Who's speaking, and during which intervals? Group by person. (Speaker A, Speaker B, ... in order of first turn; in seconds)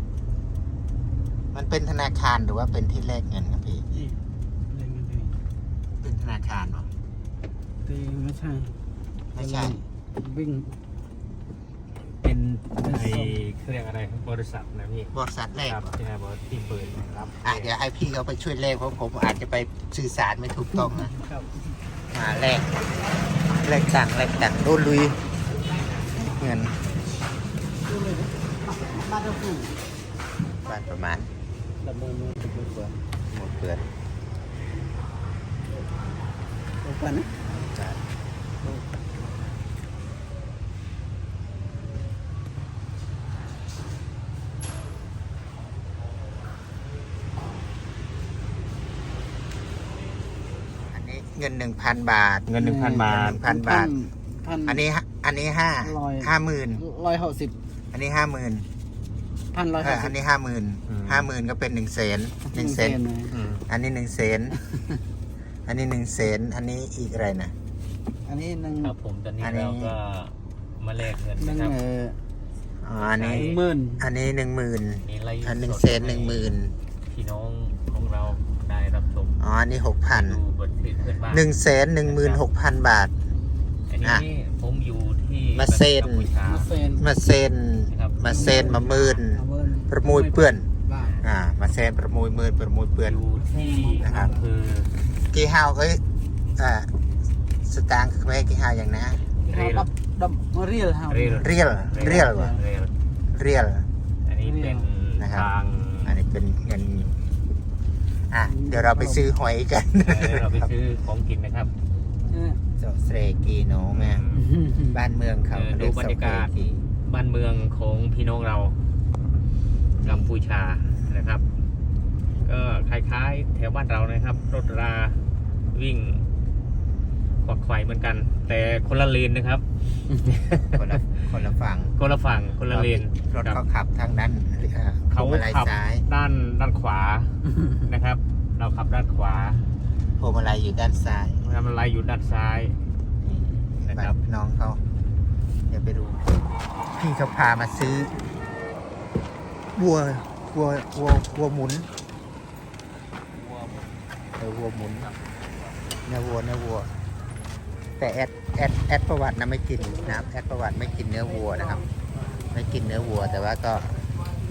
Speaker A: 1.5-3.9, 6.0-6.9, 9.3-9.8, 15.1-15.9, 17.4-21.1, 22.1-22.7, 23.6-25.2, 26.2-26.8, 30.6-31.3, 33.3-33.8, 37.5-38.0, 50.9-53.9, 54.6-56.9, 57.9-58.6, 59.8-63.0, 63.7-64.6, 65.7-67.5, 69.4-69.9, 72.8-76.7, 79.4-80.4, 81.3-83.1, 85.5-86.3, 87.0-90.7, 91.2-93.2, 94.0-94.3, 95.3-96.0, 96.6-96.9, 97.6-99.2, 101.4-102.5, 103.3-103.8, 105.2-105.5, 106.0-107.1, 108.3-110.7, 112.8-114.2, 114.9-116.8, 120.0-120.3, 130.7-131.9, 132.7-136.1, 140.2-141.4, 143.2-144.8, 145.7-146.3, 146.9-148.1, 149.7-151.9, 154.4-155.1, 156.1-156.9, 158.0-161.8, 162.5-163.9
Speaker B: 4.7-5.4, 7.8-8.8, 9.4-10.7, 20.9-21.5, 27.9-29.7, 31.8-32.9, 36.8-37.3, 52.7-54.8, 55.9-56.3, 56.8-57.5, 59.5-60.1, 62.5-63.3, 68.2-68.9, 71.5-72.2, 73.4-74.0, 86.5-87.0, 88.4-91.1, 93.6-94.3, 99.5-101.2, 104.4-104.8, 108.5-109.2, 112.3-112.6
Speaker C: 12.2-15.1, 15.7-17.7, 52.5-53.4, 60.9-61.3, 63.3-63.6, 68.8-71.8, 72.9-73.7, 75.0-76.5, 77.1-79.4, 80.1-81.5, 82.0-82.4, 83.9-86.7, 87.9-88.7, 91.0-91.2, 93.0-94.9, 99.4-99.9, 101.1-102.9, 104.2-106.2, 110.0-111.7, 113.8-114.5, 115.5-116.5, 117.0-118.8, 120.0-121.4, 122.4-125.2, 125.7-126.3, 127.4-129.6, 130.2-131.1, 132.0-133.6, 135.1-139.7, 141.4-142.8, 143.9-144.2, 153.3-153.9, 155.0-155.8